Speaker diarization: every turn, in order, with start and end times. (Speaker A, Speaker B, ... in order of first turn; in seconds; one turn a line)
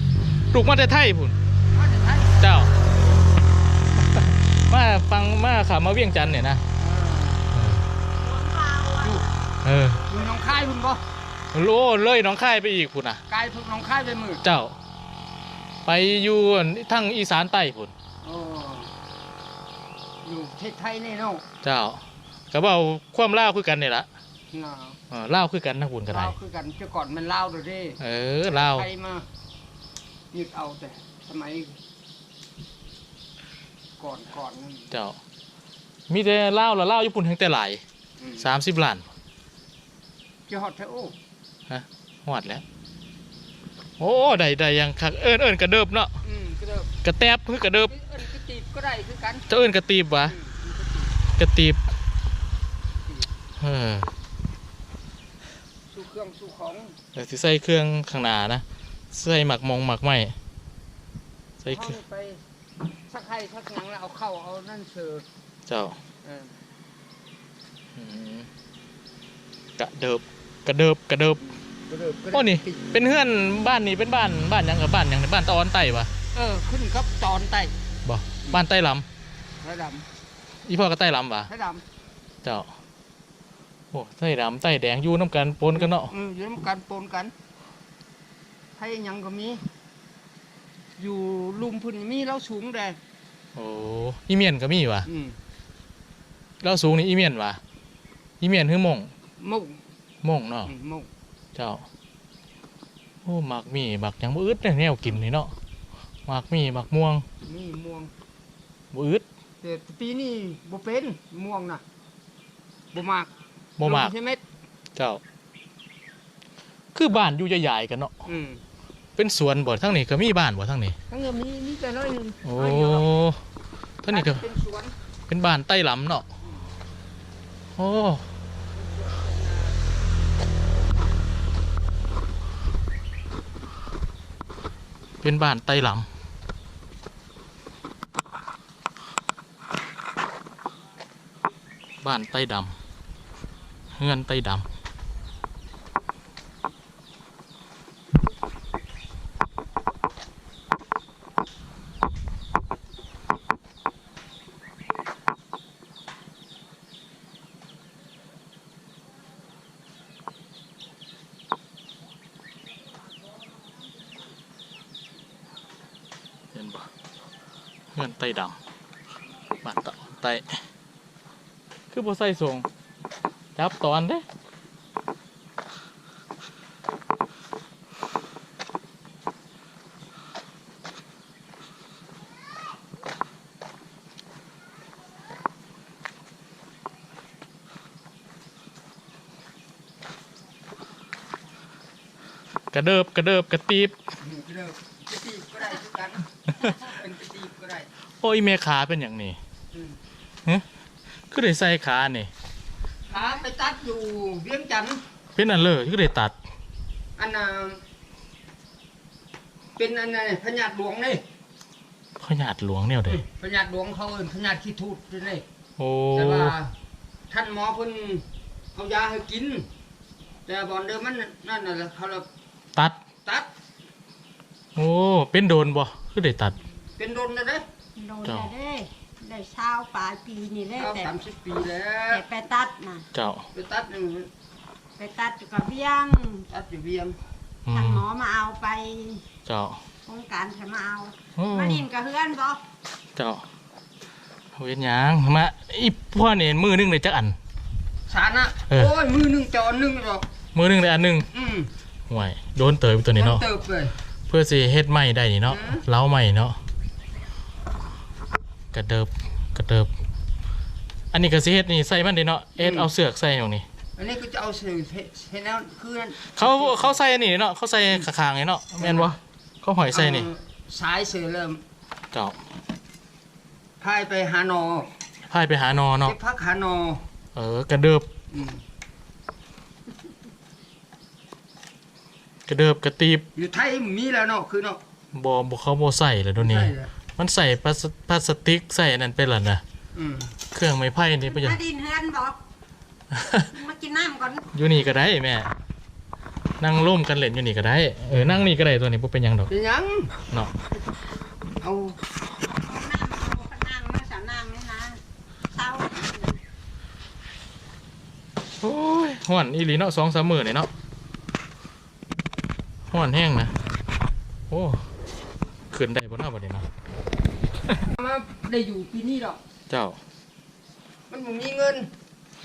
Speaker A: 0.5-1.4
Speaker B: 1.7-2.5
Speaker A: 2.4-2.7
Speaker A: 4.7-6.6
Speaker B: 6.8-7.5
Speaker A: 7.5-7.8
Speaker C: 8.2-9.3
Speaker A: 9.6-10.0
Speaker B: 10.1-11.0
Speaker A: 11.5-13.2
Speaker B: 13.3-14.4
Speaker A: 14.4-14.8
Speaker A: 15.8-17.9
Speaker B: 18.2-18.9
Speaker B: 20.2-21.4
Speaker A: 21.6-24.1
Speaker B: 24.5-25.0
Speaker A: 25.1-26.3
Speaker B: 26.1-29.3
Speaker A: 28.0-28.9
Speaker B: 30.3-31.8
Speaker B: 34.0-34.9
Speaker A: 34.9-35.2
Speaker A: 36.1-37.8
Speaker B: 38.2-38.5
Speaker A: 38.4-39.1
Speaker B: 40.5-41.1
Speaker A: 41.7-42.6
Speaker A: 44.0-46.2
Speaker B: 46.2-46.9
Speaker A: 47.0-47.9
Speaker B: 47.9-49.5
Speaker A: 49.5-50.4
Speaker B: 50.3-51.2
Speaker A: 51.4-51.8
Speaker A: 53.6-54.1
Speaker B: 55.9-57.0
Speaker A: 57.1-60.4
Speaker A: 61.6-62.0
Speaker B: 61.6-62.4
Speaker B: 63.0-65.2
Speaker A: 65.7-66.0
Speaker B: 66.2-66.6
Speaker A: 68.0-68.5
Speaker A: 69.8-71.4
Speaker B: 71.5-72.9
Speaker A: 72.3-76.1
Speaker B: 76.3-77.8
Speaker A: 78.0-79.0
Speaker B: 79.6-80.0
Speaker A: 80.6-81.5
Speaker B: 81.5-81.8
Speaker A: 82.4-82.7
Speaker A: 83.9-86.1
Speaker B: 85.7-87.3
Speaker B: 88.8-89.6
Speaker B: 91.0-93.0
Speaker A: 93.5-95.1
Speaker B: 95.0-95.4
Speaker A: 96.6-97.6
Speaker A: 98.4-99.1
Speaker B: 99.4-99.8
Speaker A: 100.2-100.7
Speaker B: 100.7-101.1
Speaker A: 101.5-101.8
Speaker A: 103.2-105.5
Speaker A: 106.3-107.2
Speaker B: 107.4-108.1
Speaker A: 108.9-109.2
Speaker B: 109.6-111.8
Speaker B: 112.9-113.3
Speaker A: 113.8-114.1
Speaker B: 113.8-114.4
Speaker A: 115.0-115.2
Speaker A: 116.9-118.1
Speaker B: 118.2-118.6
Speaker A: 119.2-121.0
Speaker B: 121.1-123.0
Speaker A: 122.4-123.4
Speaker A: 124.0-124.4
Speaker B: 124.1-124.9
Speaker A: 125.3-126.3
Speaker A: 127.8-128.3
Speaker B: 128.7-129.8
Speaker A: 135.2-136.1
Speaker A: 142.0-142.8
Speaker A: 143.9-144.7
Speaker A: 166.5-166.9
Speaker A: 167.9-168.6
Speaker A: 169.6-170.6
Speaker A: 171.9-172.7
Speaker A: 173.6-174.2
Speaker A: 192.7-194.0
Speaker B: 194.2-197.9
Speaker A: 198.2-199.4
Speaker B: 199.7-200.0
Speaker A: 201.3-202.3
Speaker B: 203.1-205.0
Speaker C: 203.1-203.4
Speaker A: 205.3-206.3
Speaker B: 207.2-207.8
Speaker B: 209.8-211.2
Speaker A: 212.2-213.2
Speaker B: 213.1-215.4
Speaker A: 215.8-216.6
Speaker B: 216.2-216.7
Speaker B: 217.3-219.7
Speaker B: 220.4-222.3
Speaker A: 222.8-223.0
Speaker B: 223.2-223.5
Speaker A: 224.8-226.6
Speaker B: 227.0-227.7
Speaker C: 227.9-231.1
Speaker A: 228.2-228.5
Speaker B: 230.8-232.2
Speaker C: 232.1-233.1
Speaker A: 233.1-233.5
Speaker B: 233.5-234.3
Speaker C: 235.0-236.5
Speaker B: 236.5-237.2
Speaker A: 237.7-238.0
Speaker C: 237.7-239.2
Speaker A: 239.4-239.8
Speaker C: 240.1-242.6
Speaker A: 241.4-241.8
Speaker A: 243.2-243.4
Speaker A: 244.6-247.4
Speaker B: 248.1-250.3
Speaker A: 250.5-251.3
Speaker B: 251.3-251.7
Speaker A: 252.1-253.4
Speaker B: 253.2-253.9
Speaker A: 254.3-256.6
Speaker B: 255.5-255.8
Speaker A: 258.7-259.9
Speaker A: 261.1-263.6
Speaker B: 262.6-262.9
Speaker B: 264.0-267.0
Speaker A: 266.2-270.3
Speaker B: 268.8-269.1
Speaker B: 269.9-271.6
Speaker B: 273.8-274.9
Speaker A: 275.3-276.1
Speaker B: 276.0-277.0
Speaker A: 277.3-278.1
Speaker B: 278.3-278.6
Speaker A: 282.5-283.2
Speaker B: 283.3-284.8
Speaker A: 285.1-289.6
Speaker B: 286.4-286.9
Speaker B: 289.9-290.3
Speaker A: 290.5-291.6
Speaker C: 291.2-292.4
Speaker A: 293.1-293.5
Speaker C: 293.4-294.4
Speaker A: 294.5-295.5
Speaker A: 296.6-299.5
Speaker B: 299.5-300.1
Speaker B: 301.6-302.0
Speaker C: 302.6-305.0
Speaker C: 305.5-306.4
Speaker A: 308.6-310.7
Speaker A: 312.9-313.5
Speaker A: 314.5-314.9
Speaker A: 315.7-316.7
Speaker B: 317.8-319.4
Speaker A: 319.7-320.0
Speaker B: 321.1-321.9